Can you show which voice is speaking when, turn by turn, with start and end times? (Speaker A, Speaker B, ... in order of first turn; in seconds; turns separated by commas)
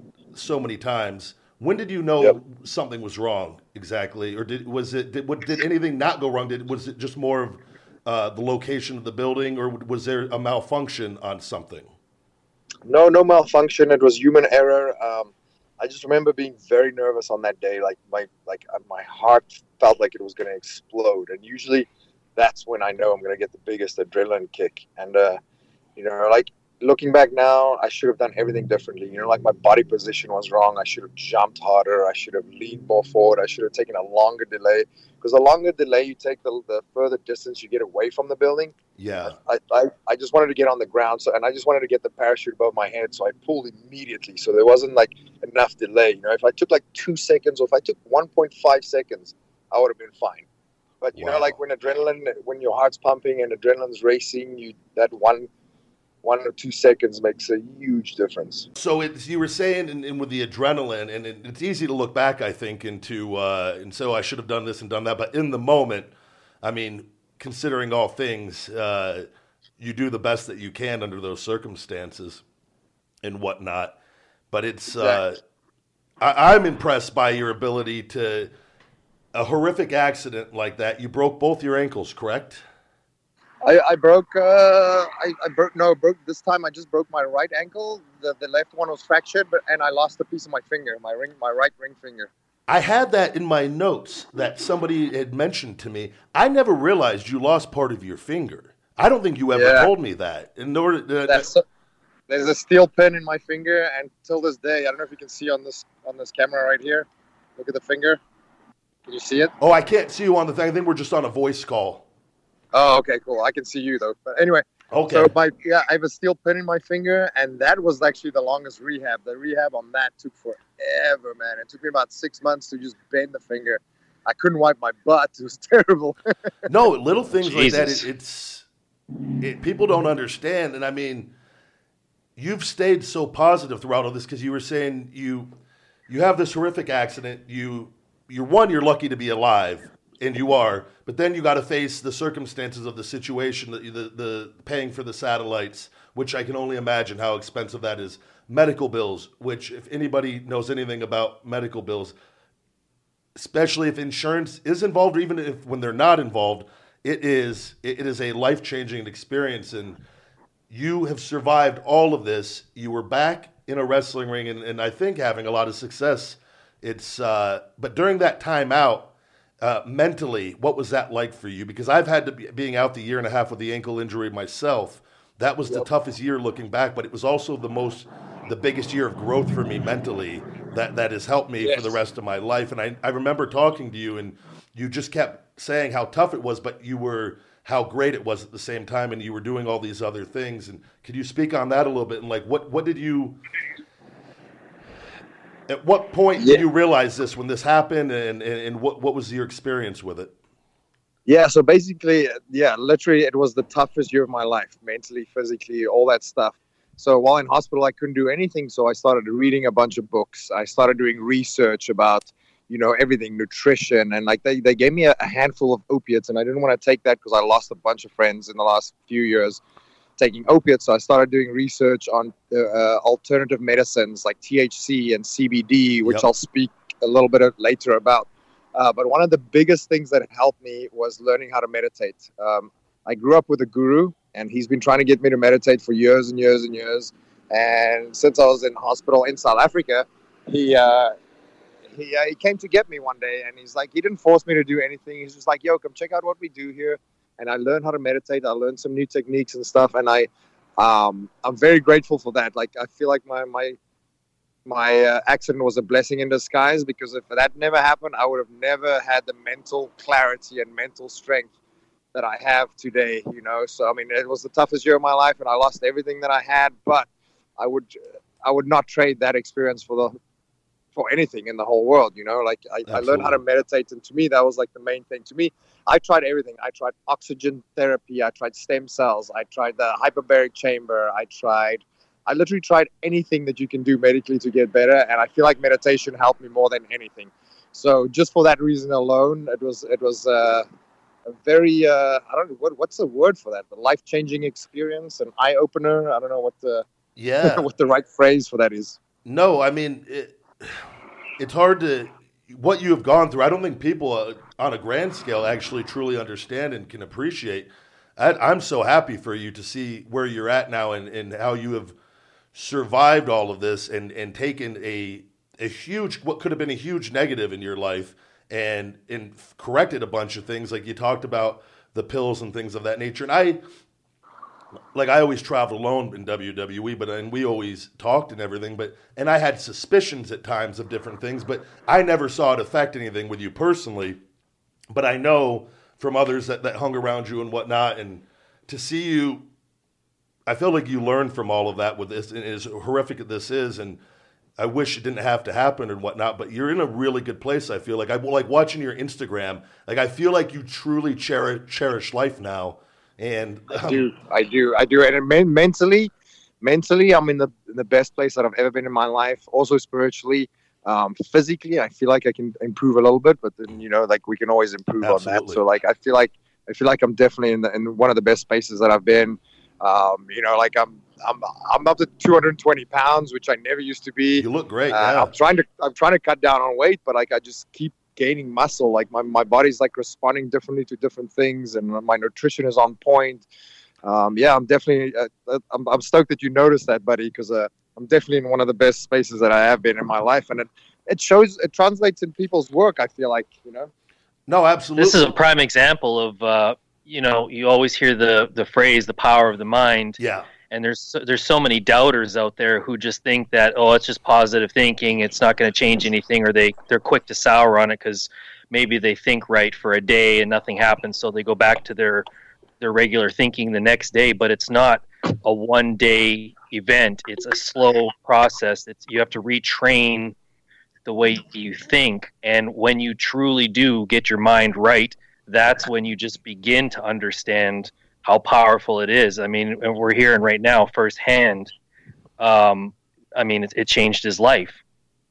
Speaker A: 0.3-11.9, Speaker B: 12.8-25.4, Speaker B: 26.0-50.5, Speaker A: 39.0-39.4, Speaker B: 51.0-55.5, Speaker A: 51.1-51.6, Speaker B: 56.2-58.7, Speaker A: 58.7-69.2, Speaker A: 69.8-72.4, Speaker A: 73.2-74.0, Speaker A: 74.5-75.4, Speaker B: 75.0-75.2, Speaker A: 76.2-78.5, Speaker A: 79.3-82.6, Speaker B: 83.6-92.3, Speaker A: 92.7-101.5, Speaker B: 99.5-99.9, Speaker B: 101.3-101.6, Speaker B: 102.3-108.2, Speaker B: 109.1-109.5, Speaker A: 109.6-112.0, Speaker B: 112.7-126.2, Speaker A: 114.9-115.3, Speaker A: 126.7-128.7, Speaker C: 127.4-128.1, Speaker A: 129.4-131.3, Speaker A: 132.3-135.5, Speaker A: 136.1-152.1, Speaker A: 153.3-160.0, Speaker A: 160.7-193.4, Speaker B: 181.6-181.9, Speaker A: 195.7-200.3, Speaker B: 196.4-196.6, Speaker B: 201.2-219.6, Speaker B: 220.2-241.1, Speaker B: 241.9-253.8, Speaker B: 254.7-261.5, Speaker B: 262.1-270.2, Speaker B: 270.9-290.6, Speaker A: 272.9-273.4, Speaker B: 291.3-296.8, Speaker A: 297.1-297.6, Speaker B: 297.4-299.0, Speaker A: 299.2-300.8, Speaker A: 301.4-311.9, Speaker A: 312.5-323.6, Speaker A: 324.9-334.2, Speaker A: 334.9-339.5, Speaker A: 340.5-344.0, Speaker A: 344.6-354.1, Speaker B: 353.7-383.4, Speaker A: 365.0-365.6, Speaker A: 374.4-375.3, Speaker B: 384.0-393.9, Speaker A: 394.5-395.3, Speaker C: 395.0-400.2, Speaker A: 400.2-400.5, Speaker C: 400.7-412.2, Speaker C: 412.8-420.3, Speaker C: 421.1-431.7, Speaker C: 432.4-434.8